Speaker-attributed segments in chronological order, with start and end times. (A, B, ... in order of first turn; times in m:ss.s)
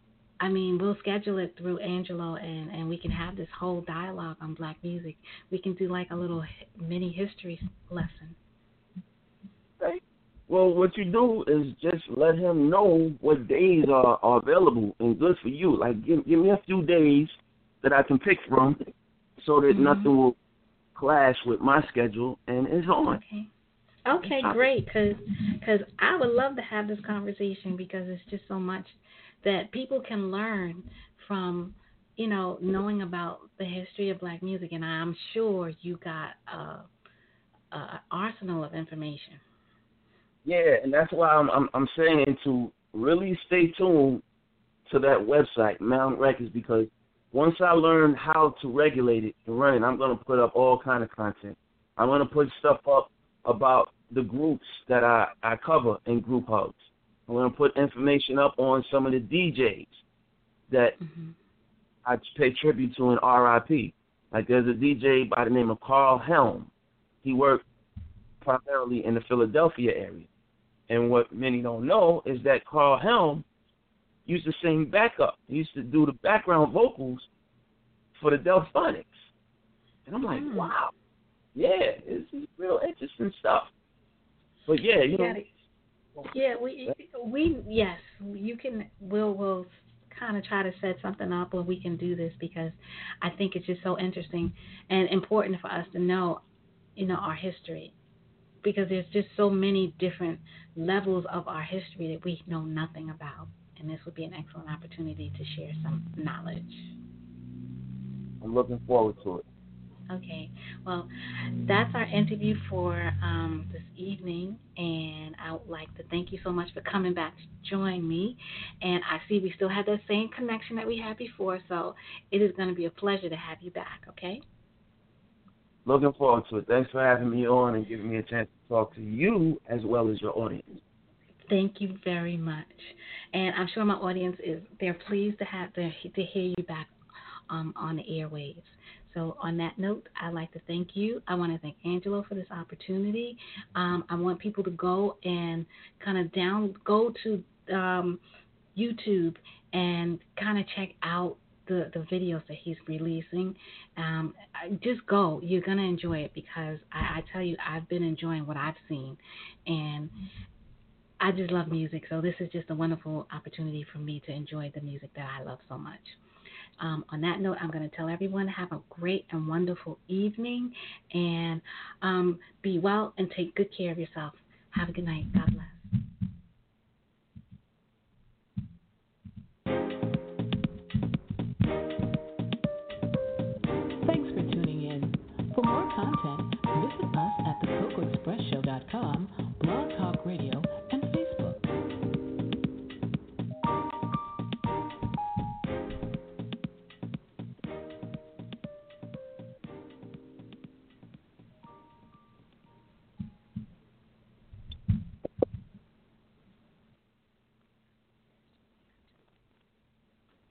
0:00.4-0:08.4 A
0:09.8-0:18.8 B
0:19.4-0:20.4 B
0:19.7-0:20.1 A
0:20.9-0:23.2 B
0:23.1-0:23.5 A
0:24.0-0:36.8 A
0:24.2-0:24.7 B
0:37.7-0:39.4 A
0:40.4-0:44.2 B
0:44.8-1:00.0 B
1:00.7-1:01.0 B
1:01.0-1:01.3 A
1:02.0-1:06.7 B
1:07.2-1:07.6 B
1:08.4-1:10.3 B
1:10.9-1:13.4 B
1:14.2-1:17.3 B
1:18.2-1:19.2 B
1:20.1-1:20.9 B
1:20.3-1:20.7 A
1:21.5-1:23.7 B
1:24.7-1:25.4 B
1:25.1-1:25.5 A
1:26.3-1:36.4 A
1:37.0-1:37.9 A
1:38.6-1:46.9 A
1:48.4-1:49.4 B
1:50.1-1:51.1 A
1:51.6-2:04.4 A
2:05.8-2:10.8 B
2:11.5-2:16.9 A
2:17.5-2:28.2 A
2:28.7-2:40.1 A
2:41.2-2:46.2 A
2:46.8-2:55.9 A
3:04.0-3:11.7 C